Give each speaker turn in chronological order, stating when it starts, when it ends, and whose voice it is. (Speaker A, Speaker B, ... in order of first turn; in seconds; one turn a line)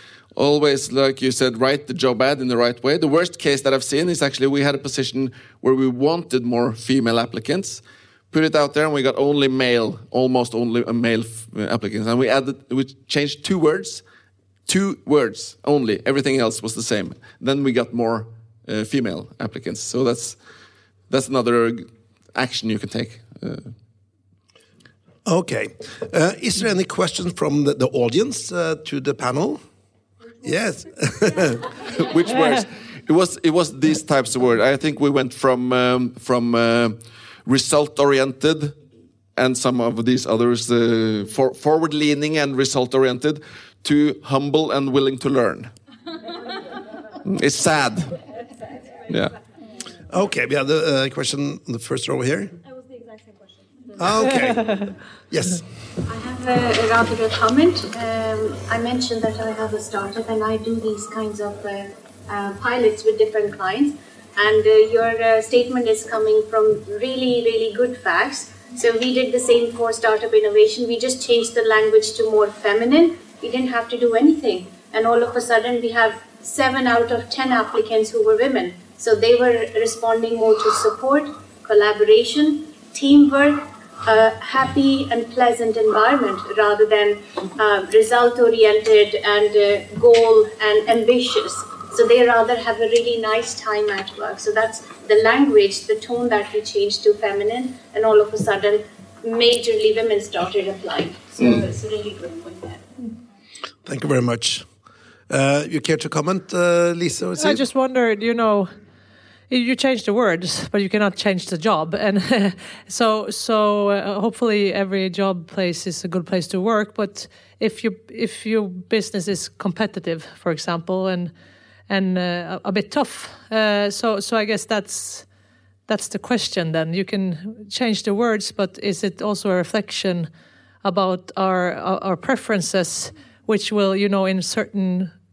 Speaker A: 0.3-14.0
Speaker A: 14.7-20.4
Speaker A: 21.1-23.7
Speaker B: 25.2-29.6
Speaker B: 30.4-31.7
Speaker A: 31.9-38.8
Speaker A: 39.4-45.7
Speaker A: 47.2-48.1
Speaker A: 49.1-49.3
Speaker B: 50.1-52.5
Speaker B: 54.0-55.6
Speaker C: 56.0-102.8
Speaker B: 103.8-104.7
Speaker B: 105.3-107.6
Speaker D: 107.4-108.7
Speaker D: 109.5-121.3
Speaker D: 121.9-125.2
Speaker D: 125.9-130.3
Speaker D: 130.8-135.1